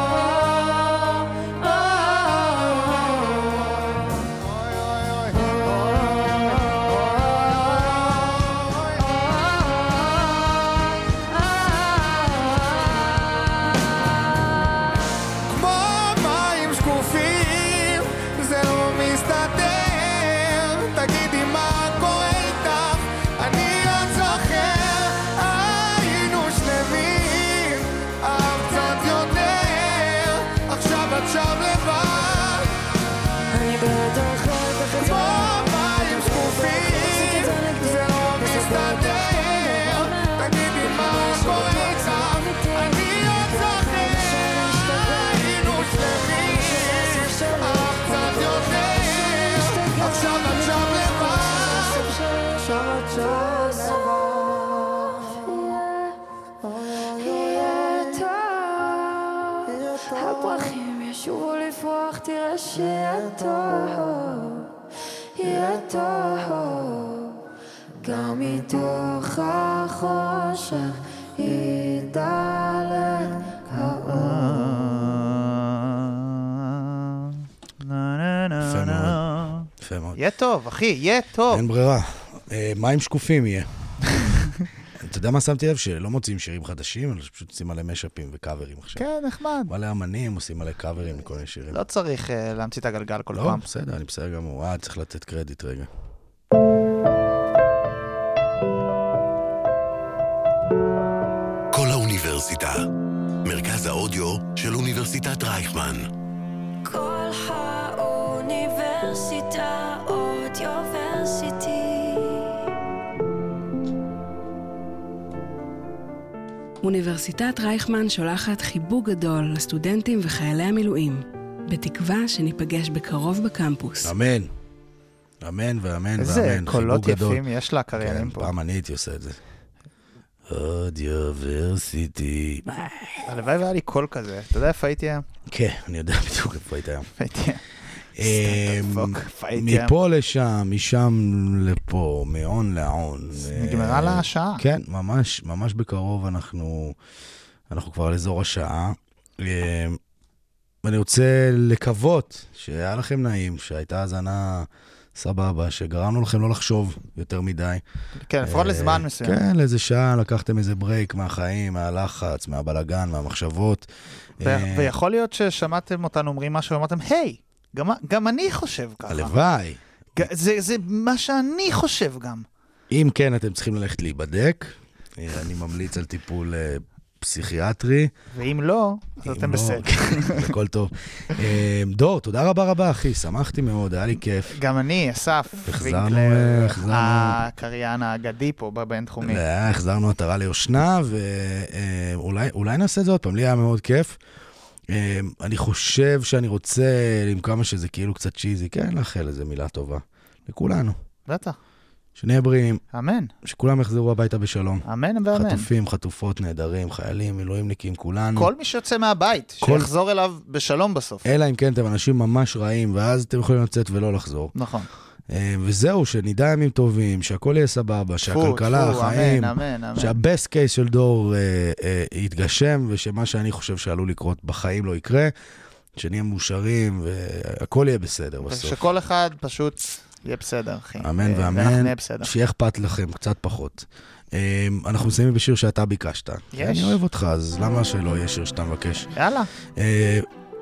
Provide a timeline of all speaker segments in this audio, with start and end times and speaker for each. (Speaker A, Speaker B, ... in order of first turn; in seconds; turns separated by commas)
Speaker A: 1.9-2.6, Speaker A: 5.1-9.1, Speaker A: 15.5-32.7, Speaker B: 33.5-52.6, Speaker A: 35.0-55.8, Speaker B: 53.1-56.1, Speaker A: 56.6-58.3, Speaker B: 57.1-64.7, Speaker A: 59.7-60.7, Speaker A: 62.8-64.3, Speaker B: 65.3-67.4, Speaker A: 65.4-66.7, Speaker B: 68.0-74.5, Speaker A: 68.1-68.9, Speaker A: 73.7-74.5, Speaker C: 74.2-81.6, Speaker D: 78.6-80.2, Speaker D: 81.5-84.3, Speaker D: 85.0-89.0, Speaker C: 89.0-89.7, Speaker D: 89.7-91.8, Speaker C: 91.7-93.6, Speaker D: 93.3-95.9, Speaker E: 101.7-102.8, Speaker E: 103.4-106.1, Speaker F: 106.8-112.6, Speaker G: 116.8-124.1, Speaker D: 124.0-124.5, Speaker D: 125.4-127.4, Speaker C: 126.2-128.5, Speaker D: 127.9-129.4, Speaker D: 130.5-133.2, Speaker C: 133.3-135.2, Speaker D: 135.5-137.1, Speaker C: 137.2-137.6, Speaker D: 138.2-147.0, Speaker C: 138.2-139.9, Speaker C: 143.4-144.6, Speaker D: 147.7-150.0, Speaker D: 150.8-157.8, Speaker C: 158.2-159.4, Speaker D: 158.4-163.9, Speaker D: 164.4-164.9, Speaker C: 164.4-169.3, Speaker D: 169.1-170.3, Speaker C: 170.2-172.4, Speaker D: 172.9-178.1, Speaker C: 178.3-180.5, Speaker D: 179.2-184.6, Speaker C: 184.5-189.4, Speaker D: 185.7-187.4, Speaker D: 189.2-194.2, Speaker D: 194.9-201.0, Speaker C: 201.3-201.6, Speaker D: 202.2-202.8, Speaker C: 202.9-203.3, Speaker D: 203.4-208.5, Speaker C: 204.8-205.7, Speaker C: 208.3-211.3, Speaker D: 209.6-209.9, Speaker D: 211.2-214.5, Speaker C: 214.5-214.9, Speaker D: 215.3-225.3, Speaker C: 218.2-220.2, Speaker D: 225.9-228.8, Speaker C: 228.4-232.3, Speaker D: 231.0-239.1, Speaker C: 236.5-237.0, Speaker C: 239.2-239.5, Speaker D: 239.7-240.3